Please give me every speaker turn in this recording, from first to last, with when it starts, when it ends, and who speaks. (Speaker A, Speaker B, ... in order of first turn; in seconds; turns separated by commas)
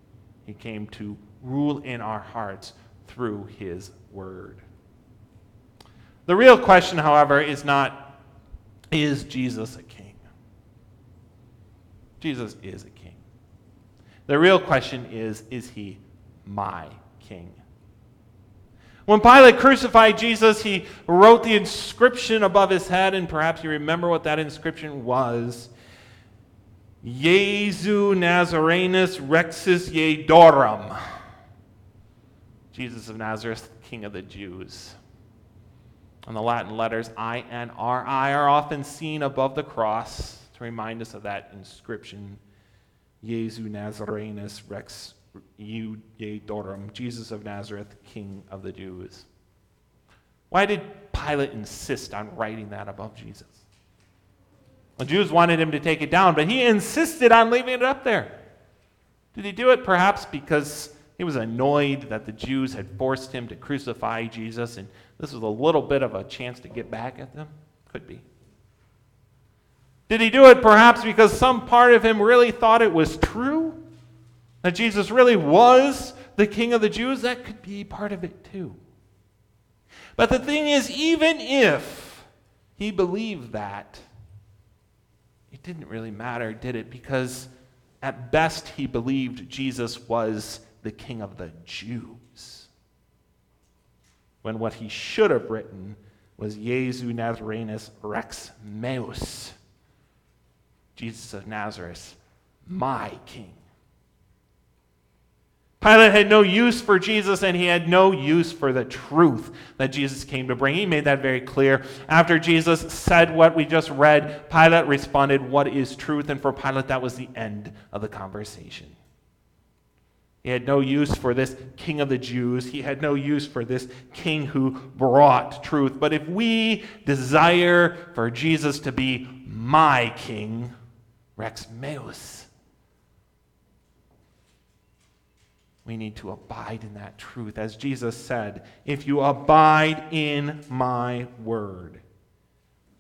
Speaker A: 0.5-4.6, Speaker A: 6.3-8.1, Speaker A: 8.9-10.2, Speaker A: 12.2-13.2, Speaker A: 14.3-17.6, Speaker A: 19.1-25.7, Speaker A: 27.0-31.0, Speaker A: 32.7-35.0, Speaker A: 36.2-42.4, Speaker A: 43.2-49.3, Speaker A: 50.5-53.6, Speaker A: 55.0-58.3, Speaker A: 59.3-68.2, Speaker A: 70.1-73.8, Speaker A: 74.6-78.8, Speaker A: 80.2-84.0, Speaker A: 85.5-87.5, Speaker A: 88.0-92.7, Speaker A: 94.4-99.5, Speaker A: 101.0-103.6, Speaker A: 105.8-119.0, Speaker A: 120.4-130.7, Speaker A: 131.4-132.5, Speaker A: 135.8-142.0